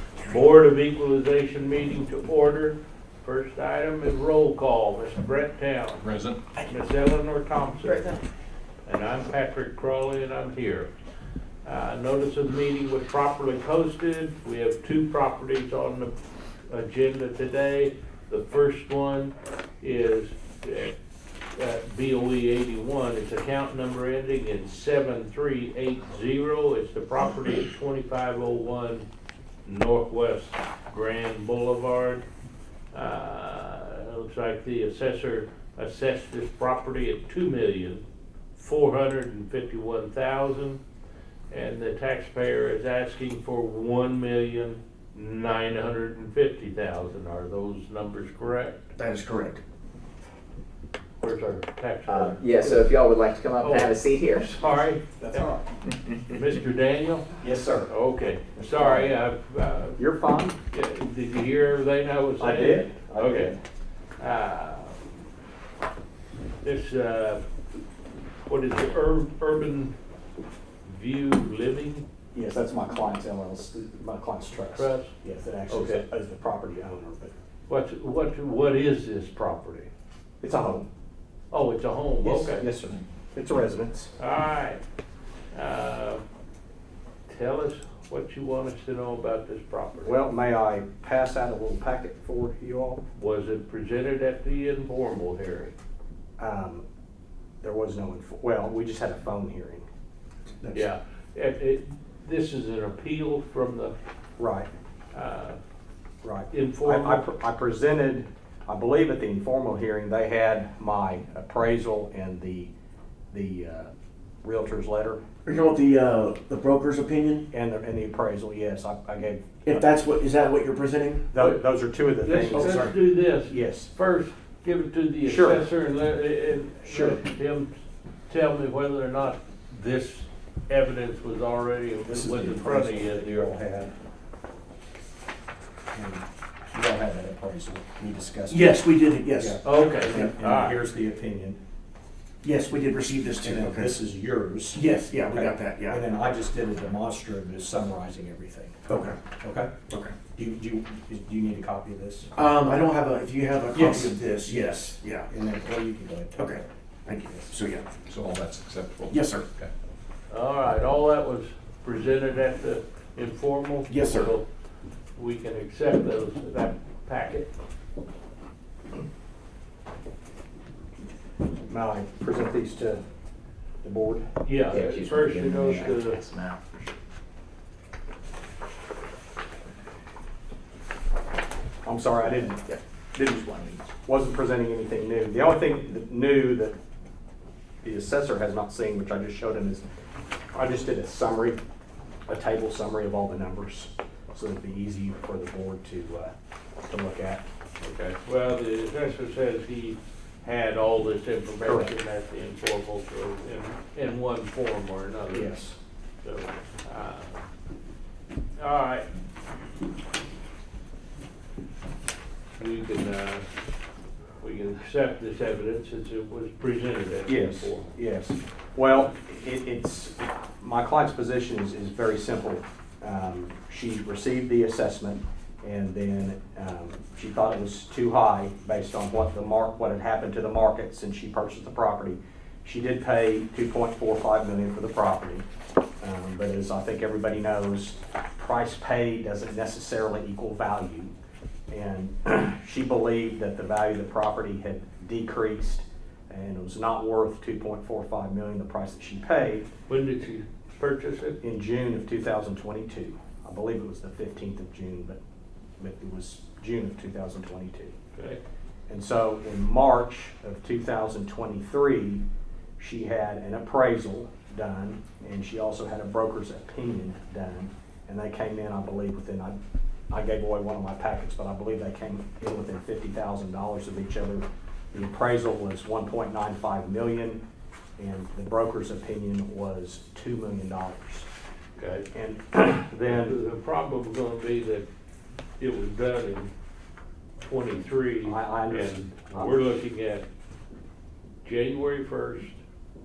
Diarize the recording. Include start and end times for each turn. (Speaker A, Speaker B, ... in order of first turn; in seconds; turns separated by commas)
Speaker A: 0.2-6.0, Speaker B: 6.0-6.5, Speaker A: 6.6-8.2, Speaker A: 8.8-10.9, Speaker A: 11.6-16.1, Speaker A: 16.7-20.9, Speaker A: 21.5-29.1, Speaker A: 29.6-32.2, Speaker A: 32.9-38.0, Speaker A: 38.5-40.8, Speaker A: 41.5-48.8, Speaker C: 49.0-49.6, Speaker A: 51.2-52.9, Speaker D: 52.1-54.5, Speaker A: 53.6-57.3, Speaker E: 55.2-55.6, Speaker E: 57.4-57.9, Speaker A: 57.9-60.0, Speaker E: 58.5-59.1, Speaker E: 60.0-60.6, Speaker A: 60.7-63.5, Speaker E: 62.4-63.6, Speaker A: 64.2-65.1, Speaker A: 66.6-67.4, Speaker A: 68.4-69.9, Speaker A: 70.8-72.0, Speaker E: 72.3-77.3, Speaker A: 74.6-75.1, Speaker A: 75.7-76.0, Speaker A: 77.7-79.9, Speaker E: 80.4-80.9, Speaker A: 81.5-82.7, Speaker E: 82.2-84.1, Speaker A: 84.2-84.8, Speaker A: 85.5-86.2, Speaker A: 87.3-90.2, Speaker E: 90.0-93.0, Speaker A: 93.2-95.7, Speaker E: 96.4-96.8, Speaker E: 97.6-99.9, Speaker C: 100.6-100.8, Speaker A: 100.7-103.9, Speaker E: 104.4-104.7, Speaker A: 105.1-105.6, Speaker E: 106.2-112.7, Speaker A: 106.5-107.2, Speaker E: 113.3-113.9, Speaker E: 114.4-115.2, Speaker C: 115.5-117.5, Speaker E: 117.5-119.8, Speaker C: 119.7-121.3, Speaker E: 121.3-122.9, Speaker A: 122.2-133.5, Speaker C: 122.5-122.9, Speaker E: 123.4-123.9, Speaker E: 125.2-125.6, Speaker E: 126.8-127.2, Speaker E: 132.0-133.9, Speaker E: 135.9-141.6, Speaker C: 138.5-139.6, Speaker A: 139.6-140.8, Speaker C: 142.4-144.0, Speaker E: 143.4-149.8, Speaker C: 144.7-146.0, Speaker C: 148.9-149.2, Speaker C: 149.9-150.2, Speaker E: 150.3-152.3, Speaker C: 152.3-155.3, Speaker E: 153.7-154.1, Speaker E: 155.3-156.6, Speaker C: 156.3-157.9, Speaker B: 158.0-159.7, Speaker C: 159.1-159.5, Speaker A: 160.3-164.4, Speaker C: 163.9-164.3, Speaker A: 165.2-167.5, Speaker E: 171.7-173.0, Speaker E: 173.8-174.3, Speaker A: 174.4-176.2, Speaker D: 174.7-176.6, Speaker E: 181.8-186.8, Speaker D: 182.7-183.8, Speaker E: 187.8-189.9, Speaker E: 190.5-191.6, Speaker E: 192.2-196.3, Speaker E: 196.9-197.4, Speaker A: 197.8-205.6, Speaker E: 201.6-201.9, Speaker E: 205.3-205.8, Speaker A: 206.2-207.5, Speaker A: 208.6-209.1, Speaker A: 212.6-213.5, Speaker A: 214.4-217.8, Speaker E: 217.2-235.4, Speaker E: 236.0-241.1, Speaker E: 241.7-249.7, Speaker A: 249.9-251.4, Speaker E: 251.4-255.2, Speaker E: 255.8-257.9, Speaker A: 258.1-258.4, Speaker E: 258.9-262.2, Speaker E: 262.8-269.6, Speaker E: 270.1-277.4, Speaker E: 278.0-281.3, Speaker A: 281.8-282.1, Speaker E: 282.1-283.4, Speaker A: 283.1-284.9, Speaker A: 285.6-286.5, Speaker A: 287.4-290.2, Speaker E: 288.2-289.6, Speaker A: 291.4-292.6